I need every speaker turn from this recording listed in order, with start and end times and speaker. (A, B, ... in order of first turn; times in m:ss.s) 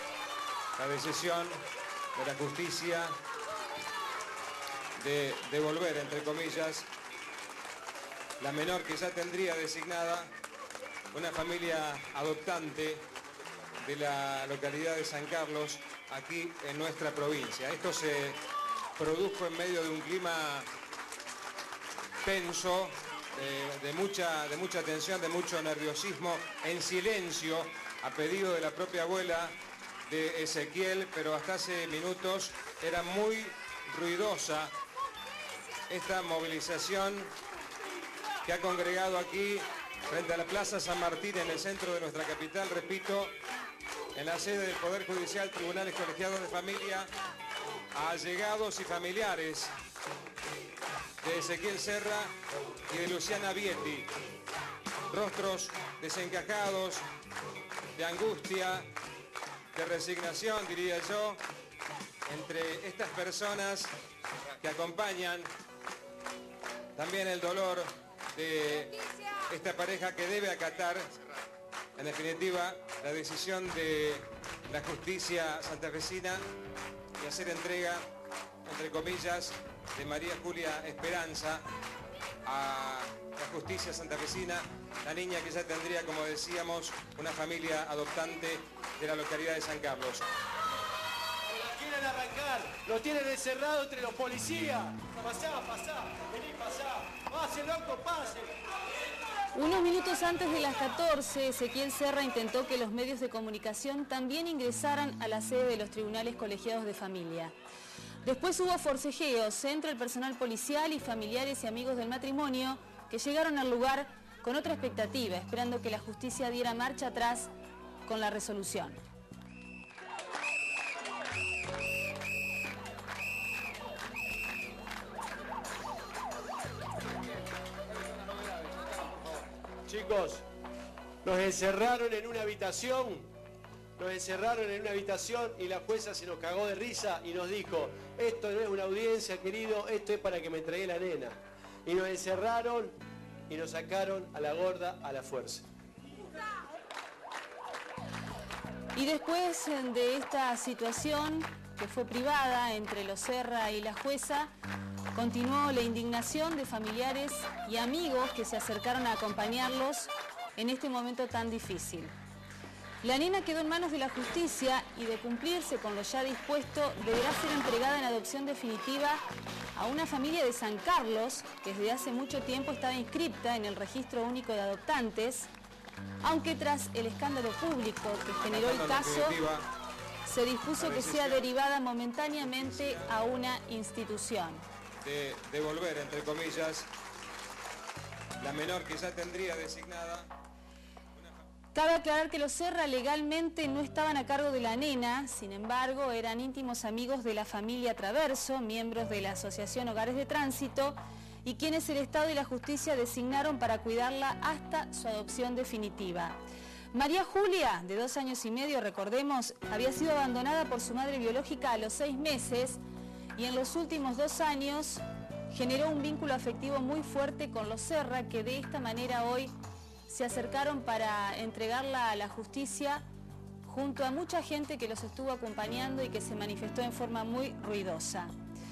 0:00.8-0:01.6 A
0:02.2-0:03.2 A
0:05.0-0:06.9 A
0:08.4-0:10.3 A
0:11.1-0:13.1 A
0:13.8-0:18.4 A
0:19.0-0:20.7 A
0:22.2-0:34.7 A
0:35.9-0:37.3 A
0:38.4-0:43.3 A
0:44.1-0:47.1 A
0:47.9-0:49.7 A
0:51.2-0:52.3 A
0:52.9-0:54.1 A
0:55.1-0:57.0 A
0:58.0-0:58.9 A
0:59.7-1:01.4 A
1:02.3-1:03.9 A
1:04.6-1:05.5 A
1:07.0-1:11.2 A
1:12.0-1:16.4 A
1:17.2-1:18.0 A
1:18.6-1:21.6 A
1:22.4-1:30.2 A
1:31.5-1:38.5 B
1:39.5-1:47.6 C
1:48.2-1:57.5 C
1:58.1-1:59.0 C
2:09.9-2:10.4 B
2:11.2-2:13.3 B
2:14.0-2:23.0 B
2:23.5-2:25.6 B
2:28.9-2:34.5 C
2:35.1-2:42.1 C
2:43.0-2:49.2 C
2:49.8-2:55.5 C
2:56.2-2:59.4 C
2:58.4-2:59.7 A
3:00.2-3:04.7 C
3:00.8-3:01.4 A
3:02.4-3:03.1 A
3:05.0-3:06.9 A
3:08.4-3:10.3 A
3:11.7-3:26.4 C
3:26.9-3:32.8 C
3:33.4-3:39.6 C
3:40.1-3:43.0 C
3:43.6-3:48.3 C